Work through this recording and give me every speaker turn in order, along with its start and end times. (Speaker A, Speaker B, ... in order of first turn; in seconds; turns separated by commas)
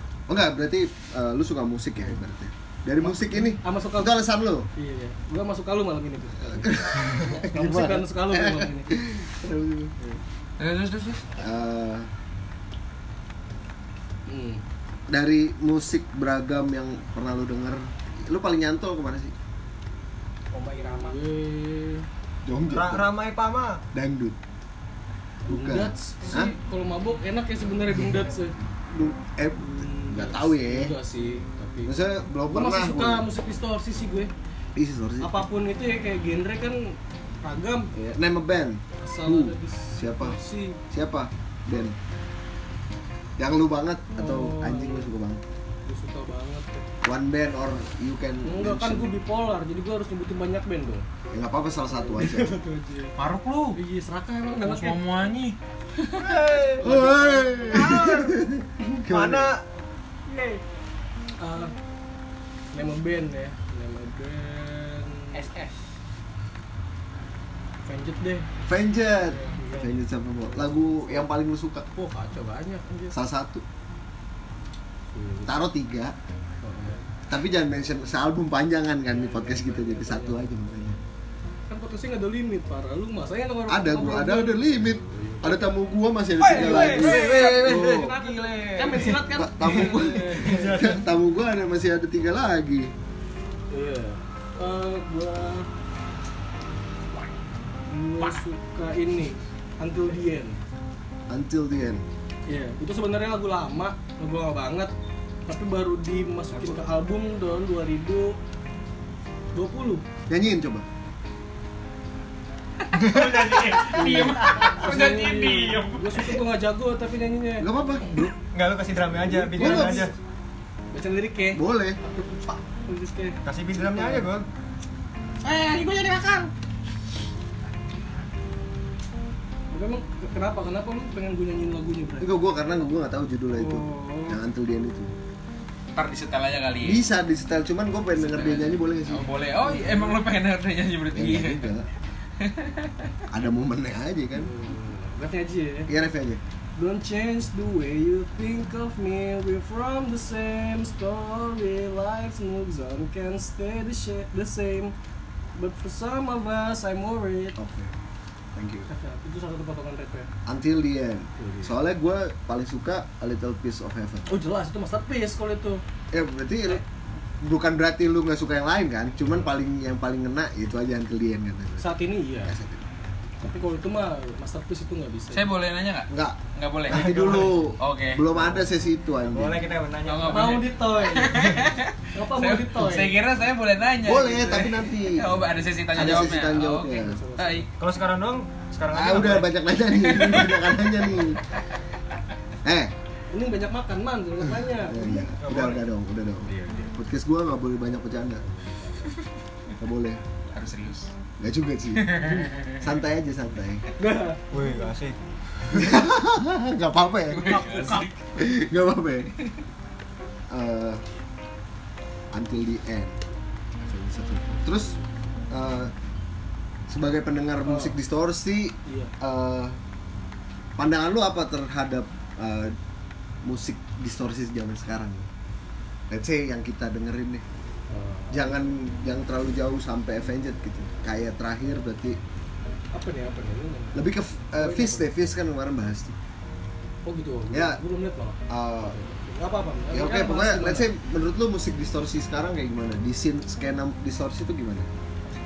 Speaker A: 0.3-4.7, Speaker B: 3.0-4.2, Speaker B: 4.7-9.0, Speaker A: 6.4-9.9, Speaker C: 10.6-11.2, Speaker A: 11.3-12.1, Speaker B: 14.3-14.6, Speaker A: 15.1-19.3, Speaker D: 20.5-21.2, Speaker B: 20.8-22.1, Speaker A: 22.4-23.2, Speaker E: 22.7-23.8, Speaker A: 23.9-24.4, Speaker A: 25.5-26.5, Speaker B: 25.5-28.5, Speaker A: 28.9-30.9, Speaker B: 29.6-31.9, Speaker A: 31.8-33.3, Speaker B: 32.5-34.3, Speaker A: 34.8-35.4, Speaker B: 35.2-37.9, Speaker A: 37.9-42.0, Speaker B: 39.0-40.8, Speaker A: 43.4-45.4, Speaker B: 44.2-45.1, Speaker B: 45.9-46.8, Speaker A: 47.0-49.1, Speaker B: 48.4-51.0, Speaker A: 51.3-52.5, Speaker B: 51.8-53.1, Speaker C: 53.2-53.8, Speaker B: 53.7-55.0, Speaker C: 54.6-55.6, Speaker E: 56.2-57.0, Speaker B: 56.7-58.3, Speaker A: 56.8-59.5, Speaker E: 57.8-58.1, Speaker E: 59.0-59.6, Speaker B: 60.3-60.6, Speaker B: 61.4-61.7, Speaker B: 62.7-65.5, Speaker D: 65.3-65.8, Speaker B: 67.8-68.5, Speaker A: 68.6-71.8, Speaker B: 69.5-71.3, Speaker B: 71.9-73.2, Speaker A: 73.1-73.6, Speaker B: 75.1-75.5, Speaker A: 75.5-76.1, Speaker B: 76.6-77.0, Speaker A: 77.3-81.0, Speaker B: 79.1-80.5, Speaker B: 81.7-85.7, Speaker A: 83.7-88.1, Speaker B: 86.4-90.9, Speaker E: 86.4-88.0, Speaker D: 86.7-89.0, Speaker E: 89.0-91.0, Speaker A: 89.0-92.9, Speaker B: 93.7-95.7, Speaker B: 97.9-100.6, Speaker A: 101.3-102.0, Speaker B: 102.5-104.9, Speaker B: 105.5-108.4, Speaker B: 109.5-110.0, Speaker A: 110.3-110.8, Speaker E: 112.9-114.1, Speaker C: 113.0-116.3, Speaker A: 114.0-114.5, Speaker B: 114.0-117.7, Speaker A: 117.6-118.3, Speaker E: 118.5-120.1, Speaker B: 119.2-120.1, Speaker A: 119.5-120.1, Speaker B: 120.9-124.3, Speaker A: 121.5-122.0, Speaker E: 123.4-124.4, Speaker B: 125.4-126.5, Speaker B: 129.7-132.3, Speaker A: 132.2-135.1, Speaker B: 133.5-134.4, Speaker C: 135.9-137.0, Speaker A: 136.8-139.3, Speaker C: 138.2-141.7, Speaker B: 139.6-140.2, Speaker A: 141.1-141.9, Speaker C: 142.4-143.1, Speaker A: 143.3-144.5, Speaker B: 144.4-145.9, Speaker A: 145.9-146.4, Speaker B: 146.8-154.9, Speaker B: 155.6-157.6, Speaker A: 157.6-157.9, Speaker A: 158.5-158.9, Speaker B: 158.9-160.3, Speaker A: 160.4-164.3, Speaker B: 161.3-161.8, Speaker B: 164.3-165.8, Speaker A: 166.1-166.8, Speaker A: 167.4-172.9, Speaker B: 171.8-172.5, Speaker B: 173.4-175.5, Speaker C: 175.3-177.1, Speaker A: 176.1-179.7, Speaker E: 176.9-177.6, Speaker C: 177.8-178.3, Speaker E: 179.3-180.7, Speaker C: 180.0-187.7, Speaker B: 180.3-183.2, Speaker A: 184.0-185.4, Speaker A: 185.9-187.2, Speaker B: 186.8-187.7, Speaker E: 187.8-189.5, Speaker A: 188.9-191.4, Speaker A: 192.6-192.9, Speaker B: 193.3-195.3, Speaker A: 194.8-198.4, Speaker E: 195.4-195.8, Speaker B: 196.4-196.9, Speaker B: 198.4-199.2, Speaker A: 199.8-200.2, Speaker C: 200.5-201.1, Speaker A: 201.4-203.8, Speaker C: 201.9-202.8, Speaker B: 204.0-204.4, Speaker E: 204.5-205.9, Speaker A: 205.7-207.7, Speaker C: 207.3-208.3, Speaker B: 207.4-208.1, Speaker A: 208.3-209.3, Speaker A: 210.5-211.0, Speaker A: 212.3-213.2, Speaker A: 213.8-215.0, Speaker A: 215.5-215.9, Speaker A: 216.9-219.8, Speaker B: 217.6-217.9, Speaker B: 218.8-219.1, Speaker A: 220.8-222.8, Speaker A: 223.4-225.3, Speaker A: 226.1-227.4, Speaker B: 227.9-228.5, Speaker A: 228.3-232.2, Speaker B: 232.9-235.1, Speaker A: 233.9-236.2, Speaker B: 237.0-240.9, Speaker A: 237.5-237.8, Speaker A: 238.5-238.9, Speaker A: 239.9-244.9